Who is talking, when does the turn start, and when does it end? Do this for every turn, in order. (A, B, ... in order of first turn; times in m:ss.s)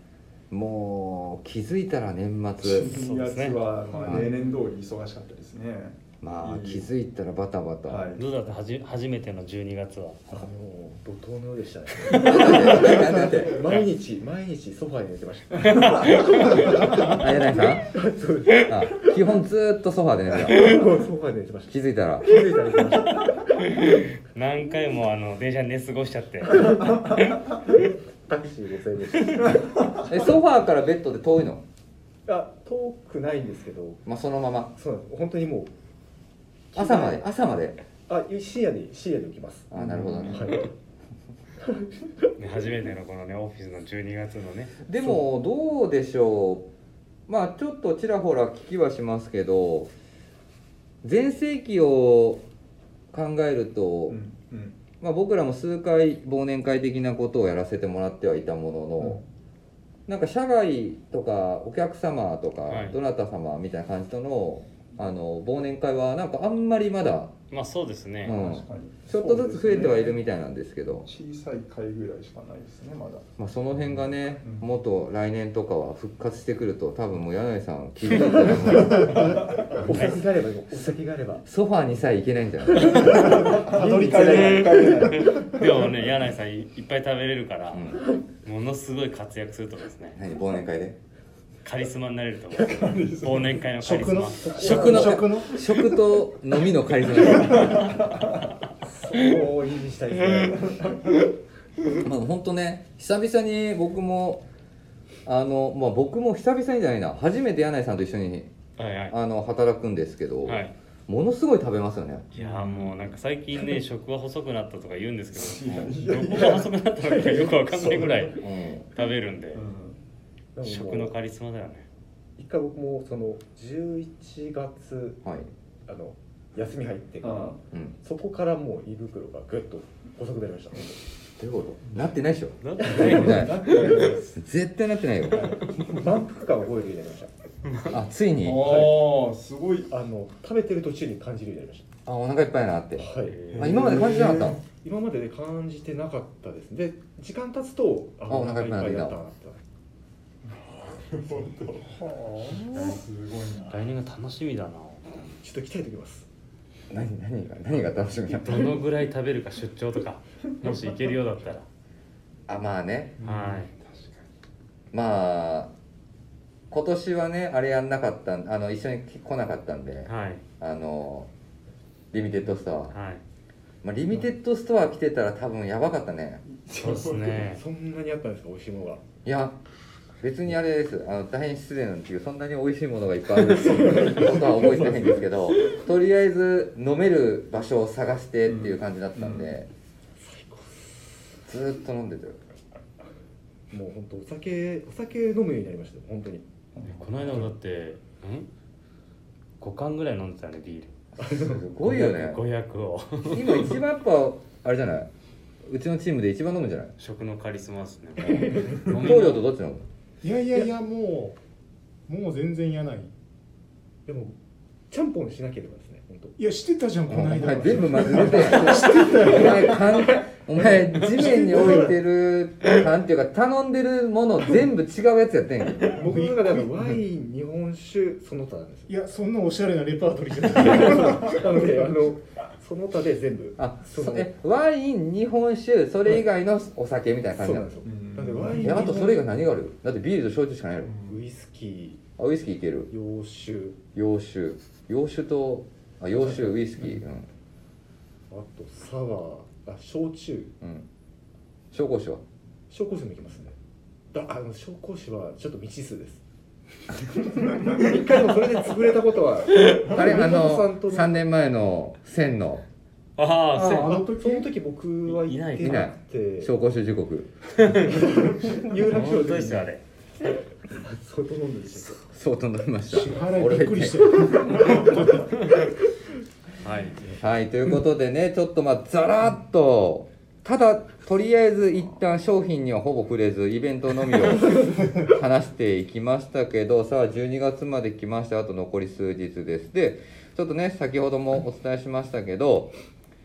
0:00.5-0:03.0 A
0:02.6-0:06.8 B
0:02.8-0:03.7 C
0:04.0-0:04.3 A
0:06.2-0:08.1 A
0:07.9-0:08.2 B
0:08.2-0:10.3 C
0:10.3-0:17.2 D
0:12.2-0:13.6 A
0:13.6-0:13.9 C
0:15.8-0:16.6 C
0:17.1-0:17.9 A
0:17.9-0:18.8 D
0:18.6-0:20.8 A
0:20.4-0:23.6 D
0:21.7-0:22.3 A
0:23.6-0:27.2 C
0:27.7-0:29.7 D
0:30.0-0:31.6 A
0:32.3-0:34.0 D
0:34.0-0:34.7 A
0:34.8-0:35.7 D
0:36.7-0:37.3 D
0:36.8-0:37.8 A
0:38.1-0:40.7 D
0:39.7-0:40.6 A
0:39.7-0:40.5 B
0:41.6-0:42.3 D
0:42.4-0:44.8 C
0:44.8-0:46.7 A
0:47.3-0:49.9 A
0:51.0-0:52.4 A
0:53.1-0:54.2 A
0:54.1-0:54.8 B
0:55.0-0:59.2 A
0:59.0-0:59.2 B
1:00.1-1:07.4 A
1:02.7-1:03.0 C
1:07.5-1:08.4 C
1:08.2-1:11.1 A
1:08.4-1:10.2 B
1:11.0-1:13.2 B
1:13.4-1:20.2 A
1:14.4-1:14.7 B
1:18.8-1:19.7 B
1:19.7-1:21.4 D
1:21.4-1:23.3 A
1:22.8-1:25.1 D
1:22.8-1:25.7 B
1:23.1-1:24.8 E
1:24.2-1:30.2 C
1:27.7-1:28.0 A
1:30.1-1:31.0 A
1:31.6-1:35.2 C
1:32.6-1:33.6 B
1:33.8-1:35.6 E
1:34.4-1:35.2 D
1:34.6-1:37.9 A
1:37.2-1:38.5 B
1:38.8-1:41.2 D
1:39.2-1:39.5 B
1:40.5-1:40.8 B
1:42.0-1:44.4 A
1:45.2-1:48.5 A
1:48.8-1:49.2 C
1:49.1-1:52.3 A
1:50.4-1:50.7 C
1:52.3-1:58.4 C
1:52.4-1:53.1 B
1:55.3-1:56.7 B
1:56.4-1:58.4 D
1:58.4-1:58.8 A
1:58.9-1:59.6 C
1:59.5-2:00.0 B
2:00.5-2:01.1 D
2:00.6-2:01.8 C
2:02.4-2:05.2 D
2:05.9-2:11.0 D
2:07.2-2:07.6 B
2:11.4-2:13.6 A
2:12.6-2:14.0 C
2:12.8-2:14.2 D
2:12.9-2:14.4 B
2:14.4-2:15.5 A
2:15.3-2:15.9 B
2:15.8-2:17.3 D
2:17.6-2:17.9 C
2:17.9-2:18.9 A
2:18.4-2:19.9 B
2:18.7-2:18.9 D
2:19.9-2:21.9 D
2:22.0-2:24.6 A
2:23.0-2:29.6 D
2:23.3-2:23.7 C
2:23.5-2:24.6 B
2:28.3-2:29.2 A
2:30.5-2:33.9 B
2:32.7-2:33.0 C
2:33.7-2:35.0 C
2:35.4-2:36.3 D
2:36.9-2:38.7 A
2:38.4-2:41.6 C
2:42.5-2:43.2 A
2:43.2-2:44.2 B
2:43.2-2:43.7 C
2:44.9-2:45.7 A
2:46.7-2:51.3 A
2:50.1-2:50.4 C
2:52.1-2:52.9 A
2:52.9-2:53.2 C
2:53.8-2:56.4 A
2:56.5-2:57.5 B
2:56.8-2:57.6 C
2:57.5-2:59.0 D
2:59.2-2:59.6 A
3:00.2-3:09.7 A
3:03.8-3:04.9 D
3:08.5-3:09.5 B
3:10.2-3:11.2 D
3:11.5-3:12.4 A
3:13.7-3:16.5 D
3:16.8-3:17.5 B
3:16.9-3:18.5 C
3:17.2-3:17.4 D
3:19.6-3:20.9 C
3:21.2-3:21.6 D
3:21.2-3:22.4 A
3:21.8-3:23.8 C
3:23.2-3:25.1 A
3:25.6-3:26.9 A
3:27.0-3:29.4 C
3:28.2-3:28.9 D
3:28.9-3:29.8 A
3:30.2-3:31.4 E
3:32.1-3:33.1 E
3:34.0-3:34.4 D
3:34.9-3:36.4 D
3:36.4-3:40.1 E
3:37.1-3:46.0 A
3:38.2-3:38.8 D
3:41.3-3:41.7 D
3:41.3-3:41.9 E
3:45.9-3:48.9 D
3:46.0-3:47.0 E
3:48.9-3:51.7 E
3:50.6-3:54.3 D
3:53.6-3:57.7 A
3:57.3-3:59.2 D
3:57.8-3:59.0 B
3:58.6-4:00.9 A
4:00.8-4:01.2 B
4:01.0-4:02.0 D
4:02.2-4:02.9 A
4:02.9-4:03.8 D
4:03.9-4:07.3 A
4:06.1-4:07.0 D
4:08.3-4:10.5 D
4:10.6-4:10.9 A
4:11.7-4:12.2 A
4:12.7-4:13.5 D
4:14.1-4:16.2 D
4:16.9-4:21.2 D
4:19.8-4:22.6 A
4:23.2-4:24.0 C
4:23.5-4:24.5 E
4:23.8-4:26.5 D
4:25.1-4:25.9 C
4:25.6-4:27.3 A
4:27.6-4:28.3 C
4:27.9-4:29.7 D
4:28.8-4:29.8 C
4:30.7-4:32.0 D
4:32.1-4:34.5 A
4:32.9-4:35.3 E
4:36.6-4:37.0 C
4:37.2-4:52.7 A